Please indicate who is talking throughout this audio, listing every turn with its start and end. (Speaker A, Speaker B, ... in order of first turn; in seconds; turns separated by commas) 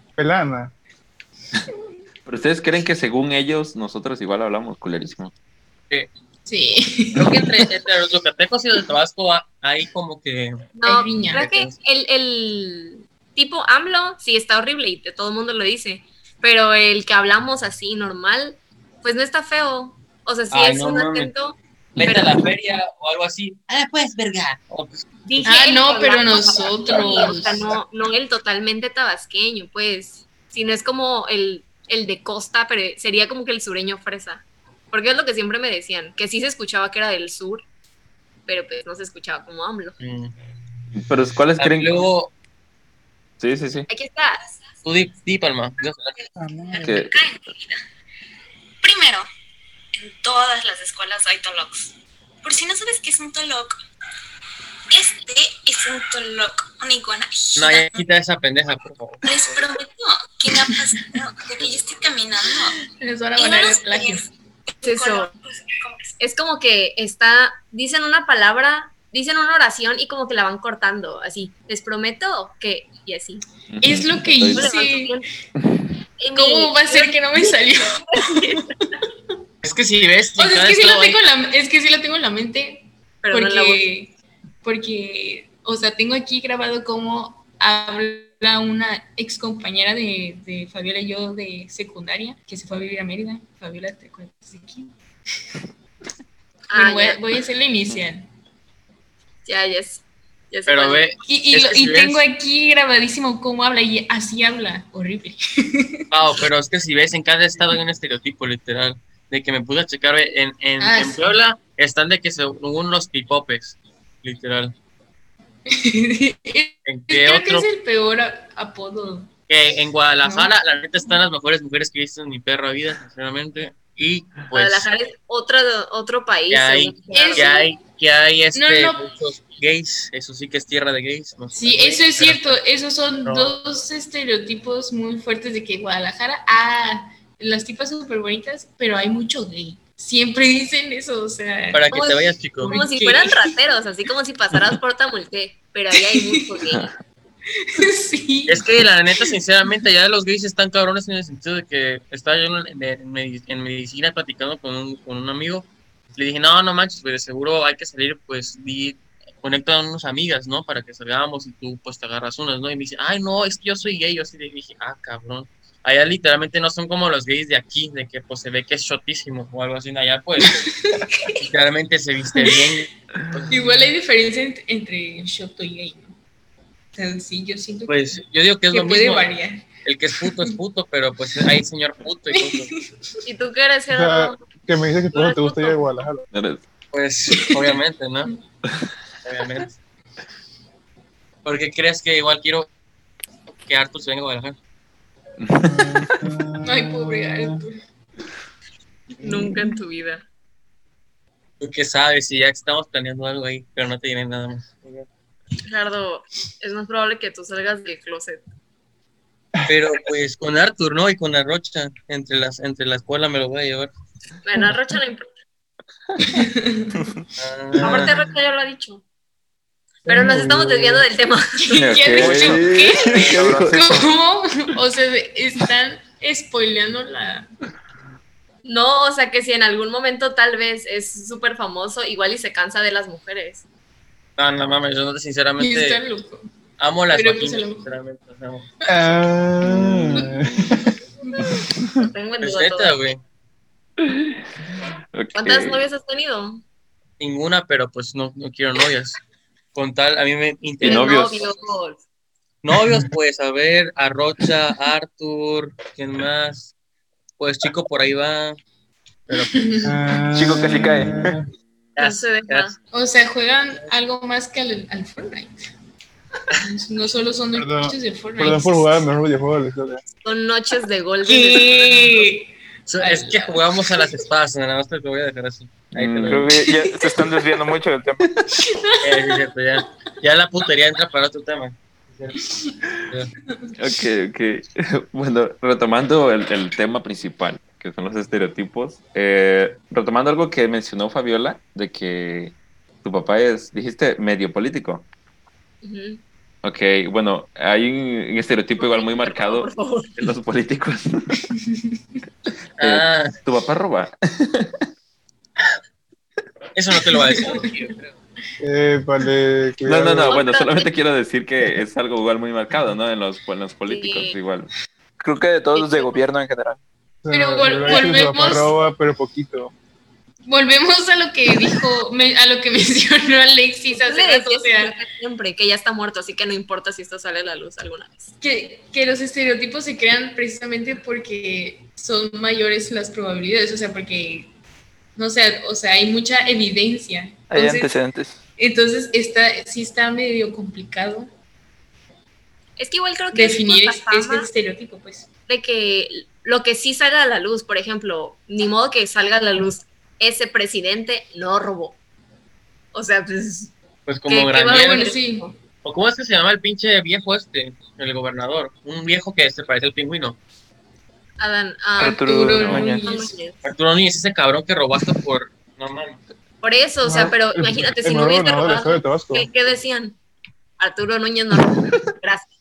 Speaker A: 0.2-0.7, Speaker B: 2.2-5.3, Speaker C: 6.5-7.5, Speaker D: 7.2-10.6, Speaker E: 10.7-22.5, Speaker C: 10.8-11.5, Speaker D: 11.3-11.7, Speaker D: 20.5-21.3, Speaker D: 21.9-25.1, Speaker E: 25.2-37.6, Speaker C: 25.4-27.7, Speaker D: 26.9-27.3, Speaker E: 38.5-40.0, Speaker D: 40.0-40.4, Speaker B: 40.9-42.1, Speaker D: 41.5-42.3, Speaker B: 43.4-43.9, Speaker E: 43.9-44.4, Speaker D: 44.8-46.2, Speaker A: 46.4-46.9, Speaker F: 46.7-47.8, Speaker B: 46.8-47.2, Speaker F: 48.8-49.3, Speaker F: 49.9-51.9, Speaker F: 52.4-53.8, Speaker F: 54.9-58.0, Speaker D: 57.5-59.4, Speaker F: 59.2-62.8, Speaker C: 63.0-64.2, Speaker F: 63.4-66.1, Speaker E: 64.8-65.3, Speaker E: 66.2-73.5, Speaker B: 73.7-74.7, Speaker C: 73.8-75.1, Speaker E: 74.5-75.2, Speaker E: 76.2-79.0, Speaker C: 76.3-78.5, Speaker D: 79.6-81.2, Speaker C: 80.4-84.1, Speaker E: 83.2-83.8, Speaker C: 84.6-94.9, Speaker E: 96.7-97.2, Speaker C: 96.7-98.3, Speaker E: 99.5-101.1, Speaker D: 100.7-102.2, Speaker C: 101.2-105.9, Speaker D: 106.1-114.7, Speaker C: 110.8-111.3, Speaker C: 115.7-119.3, Speaker D: 116.8-117.7, Speaker D: 119.5-124.9, Speaker C: 120.2-120.5, Speaker E: 124.5-127.7, Speaker D: 126.5-132.6, Speaker C: 127.1-127.7, Speaker C: 128.5-129.0, Speaker C: 131.5-141.8, Speaker D: 133.2-133.6, Speaker D: 141.7-142.7, Speaker E: 141.9-146.9, Speaker C: 142.6-143.5, Speaker C: 147.7-148.7, Speaker D: 148.5-170.6, Speaker C: 170.7-171.3, Speaker D: 171.3-173.9, Speaker C: 172.3-172.6, Speaker C: 173.5-176.1, Speaker C: 176.9-178.1, Speaker D: 177.9-179.3, Speaker C: 178.7-179.7, Speaker D: 179.8-182.7, Speaker C: 180.2-180.5, Speaker C: 182.3-182.8, Speaker E: 183.2-184.5, Speaker A: 183.9-186.3, Speaker E: 185.1-185.8, Speaker B: 186.3-186.6, Speaker D: 186.9-188.3, Speaker D: 189.2-189.8, Speaker D: 191.4-192.7, Speaker D: 193.7-194.6, Speaker B: 195.4-196.2, Speaker A: 195.7-197.6, Speaker C: 196.6-197.8, Speaker E: 199.2-200.2, Speaker D: 201.6-205.1, Speaker E: 205.6-208.4, Speaker D: 209.7-213.9, Speaker E: 214.4-215.3, Speaker C: 216.3-216.6, Speaker D: 217.4-218.1, Speaker E: 217.8-219.0, Speaker B: 217.8-218.1, Speaker A: 220.1-221.1, Speaker E: 220.1-221.8, Speaker C: 221.7-227.5, Speaker B: 221.7-224.0, Speaker G: 222.2-224.1, Speaker E: 228.6-233.6, Speaker D: 234.4-236.0, Speaker C: 235.6-236.5, Speaker D: 236.8-238.7, Speaker C: 237.1-237.9, Speaker A: 238.9-240.9, Speaker B: 239.6-240.3, Speaker E: 242.0-243.0, Speaker D: 242.4-243.2, Speaker B: 244.0-244.4, Speaker B: 245.1-245.8, Speaker E: 245.3-246.6, Speaker D: 247.2-249.2, Speaker D: 249.7-251.4, Speaker E: 250.8-252.0, Speaker D: 252.6-256.7, Speaker D: 257.4-258.6, Speaker D: 259.3-259.6, Speaker C: 259.4-260.1, Speaker A: 259.8-261.5, Speaker G: 260.3-261.4, Speaker D: 261.9-262.7, Speaker E: 262.0-262.7, Speaker C: 262.9-265.6, Speaker C: 266.6-269.0, Speaker A: 267.6-270.0, Speaker E: 270.2-272.3, Speaker C: 271.2-272.5, Speaker D: 272.9-276.5, Speaker C: 273.0-273.5, Speaker B: 275.9-276.5, Speaker G: 276.2-278.2, Speaker C: 276.8-277.3, Speaker C: 278.7-279.0, Speaker D: 279.0-282.4, Speaker B: 283.8-295.1, Speaker E: 295.8-296.2, Speaker B: 296.6-301.3, Speaker E: 298.8-300.3, Speaker D: 302.8-303.3, Speaker B: 302.8-304.7, Speaker D: 306.7-308.1, Speaker C: 307.4-307.6, Speaker A: 308.6-310.4, Speaker B: 309.8-314.7, Speaker E: 310.2-310.9, Speaker E: 313.8-314.4, Speaker G: 315.2-316.8, Speaker E: 315.7-316.2, Speaker A: 317.2-319.7, Speaker C: 317.3-318.7, Speaker C: 320.4-324.9, Speaker E: 323.9-328.3, Speaker C: 328.4-334.5, Speaker C: 335.1-338.0, Speaker G: 337.5-338.4, Speaker C: 338.6-341.3, Speaker E: 342.8-344.5, Speaker C: 343.3-345.3, Speaker E: 345.5-352.0, Speaker E: 352.9-353.7, Speaker D: 354.1-355.1, Speaker E: 354.3-355.5, Speaker C: 354.7-355.4, Speaker D: 355.8-360.4, Speaker E: 361.4-362.3, Speaker G: 362.0-363.1, Speaker C: 362.2-363.3, Speaker E: 363.0-363.6, Speaker D: 363.6-366.2, Speaker E: 366.6-370.2, Speaker A: 367.0-369.5, Speaker E: 370.8-372.5, Speaker B: 371.7-372.1